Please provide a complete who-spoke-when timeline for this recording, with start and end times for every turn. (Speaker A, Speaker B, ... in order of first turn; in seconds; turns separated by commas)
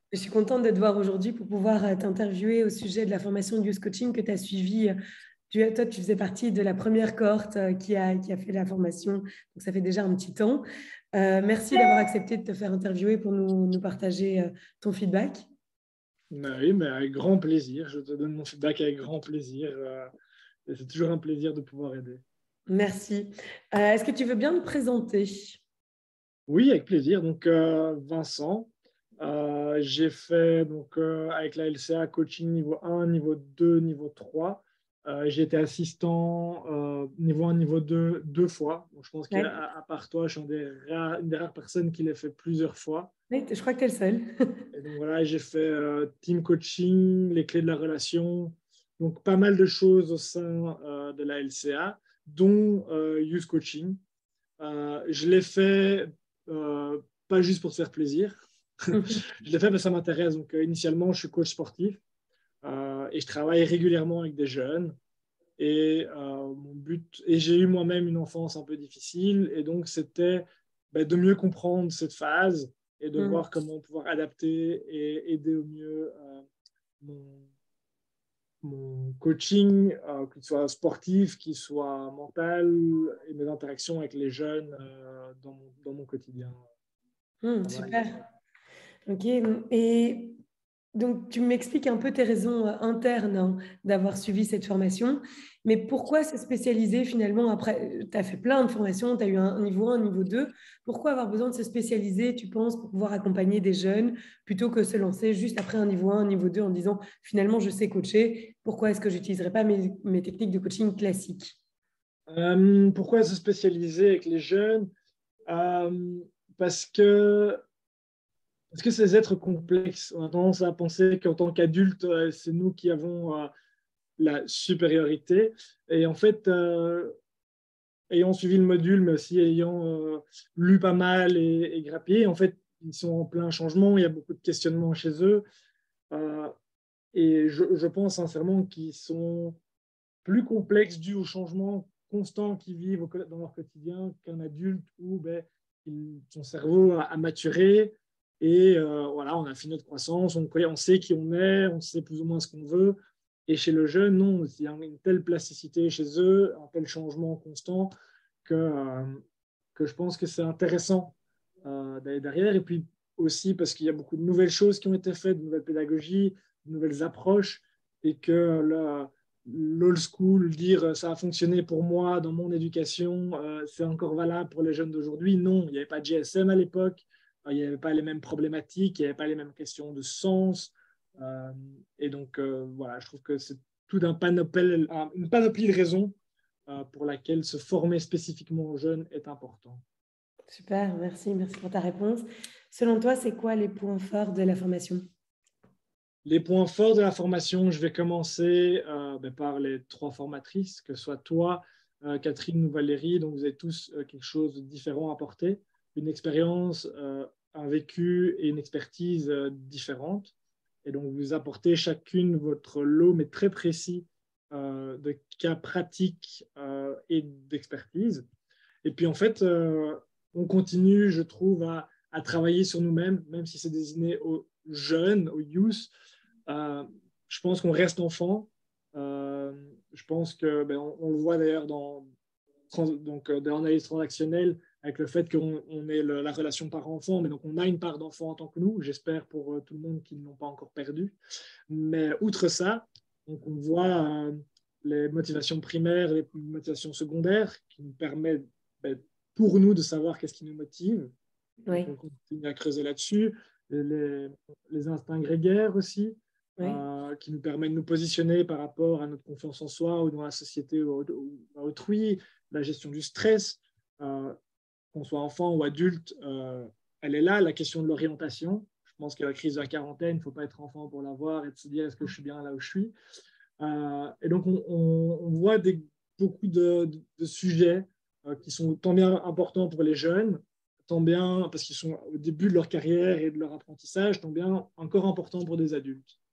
Speaker A: 0.1-4.9, Speaker A: 5.5-15.5, Speaker B: 16.3-20.1, Speaker B: 20.7-22.2, Speaker A: 22.7-25.6, Speaker B: 26.5-43.1, Speaker A: 39.3-39.6, Speaker A: 43.3-44.6, Speaker B: 44.7-54.0, Speaker B: 54.6-62.0, Speaker A: 58.9-59.2, Speaker B: 62.6-64.9, Speaker B: 65.6-76.4, Speaker A: 73.2-73.4, Speaker B: 77.0-77.5, Speaker B: 78.6-86.6, Speaker A: 87.4-88.2, Speaker B: 87.6-88.0, Speaker A: 89.1-90.4, Speaker A: 90.9-111.5, Speaker B: 112.3-114.9, Speaker B: 115.5-117.6, Speaker B: 118.7-123.5, Speaker B: 124.2-127.1, Speaker B: 128.1-135.4, Speaker B: 136.1-136.5, Speaker B: 137.1-139.6, Speaker B: 140.2-152.9, Speaker B: 153.5-157.9, Speaker B: 158.4-159.2, Speaker B: 159.8-186.1, Speaker B: 186.7-189.8, Speaker A: 190.5-195.0, Speaker B: 196.2-210.3, Speaker B: 210.8-218.2, Speaker B: 218.8-225.9, Speaker B: 226.5-232.1, Speaker B: 232.7-241.2, Speaker B: 241.7-251.1, Speaker A: 251.7-251.9, Speaker B: 251.7-264.3, Speaker B: 264.9-272.9, Speaker B: 273.6-286.1